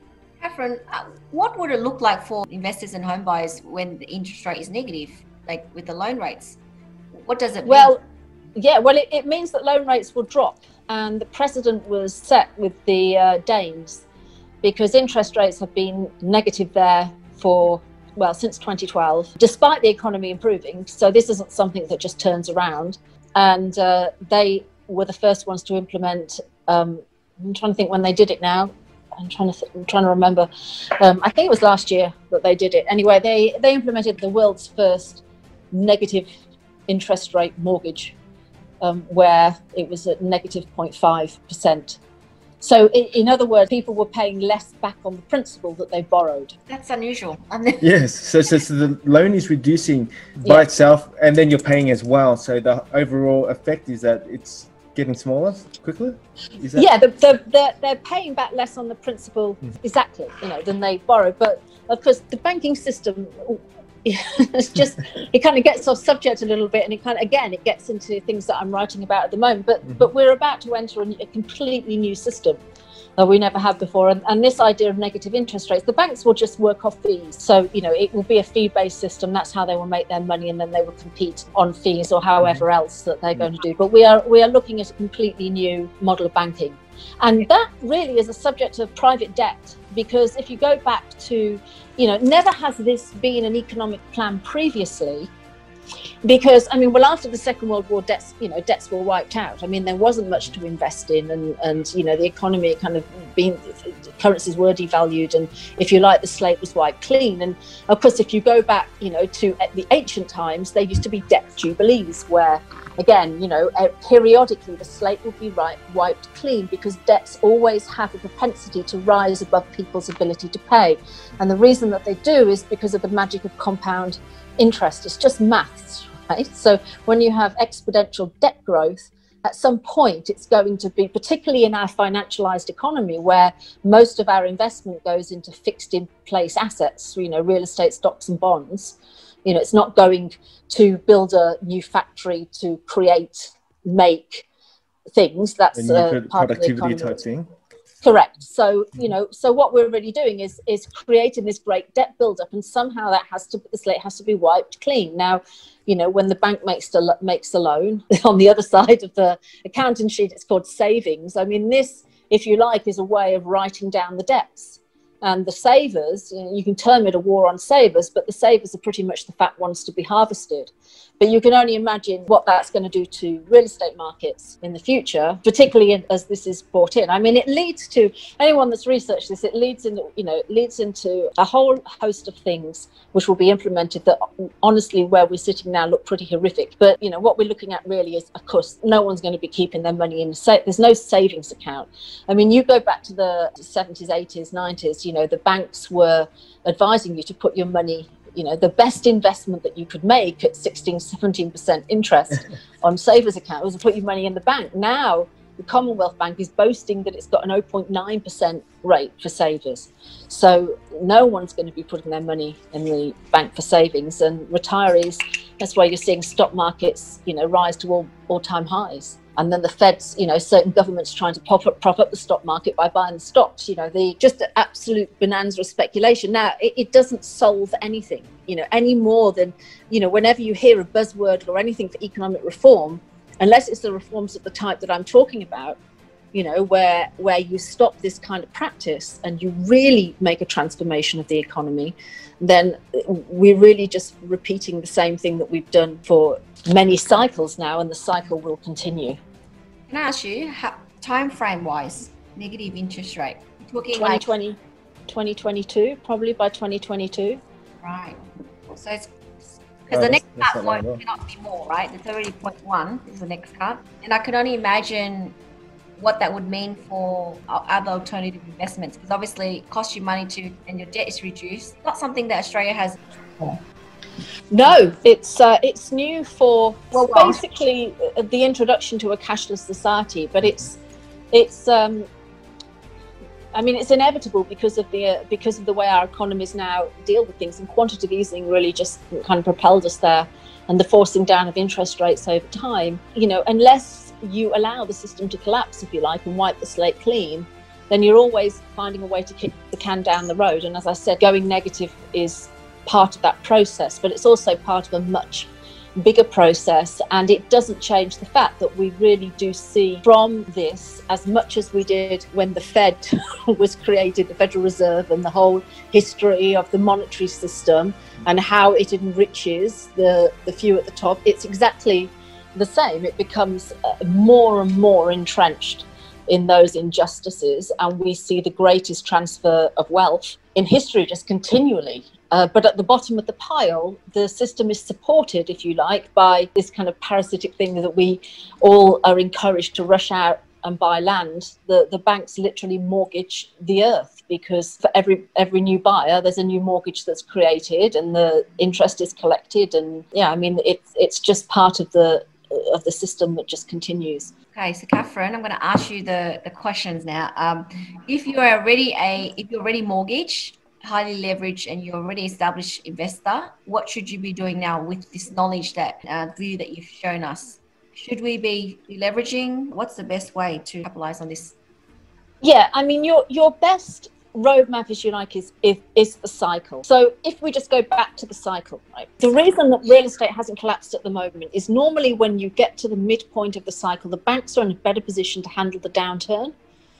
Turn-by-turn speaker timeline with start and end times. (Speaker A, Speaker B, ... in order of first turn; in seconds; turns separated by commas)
Speaker A: 0.4-6.6, Speaker A: 7.1-7.9, Speaker B: 7.6-8.0, Speaker B: 8.6-14.0, Speaker B: 14.6-30.5, Speaker B: 31.0-36.3, Speaker B: 36.9-38.1, Speaker B: 38.8-42.0, Speaker B: 42.6-46.5, Speaker A: 46.7-47.9, Speaker C: 47.8-56.9, Speaker B: 56.8-72.6, Speaker B: 73.2-95.3, Speaker B: 96.2-144.4, Speaker B: 145.1-147.2, Speaker C: 145.7-147.5, Speaker B: 148.0-235.8, Speaker B: 236.3-249.2, Speaker A: 249.9-254.2, Speaker B: 253.9-254.6, Speaker B: 255.1-257.4, Speaker A: 257.8-258.2, Speaker A: 258.7-259.1, Speaker A: 259.9-265.3, Speaker C: 259.9-261.0, Speaker A: 266.0-273.5, Speaker B: 274.5-280.8, Speaker A: 276.9-277.4, Speaker B: 281.3-282.1, Speaker B: 283.5-354.3, Speaker A: 354.5-371.5, Speaker B: 372.4-386.5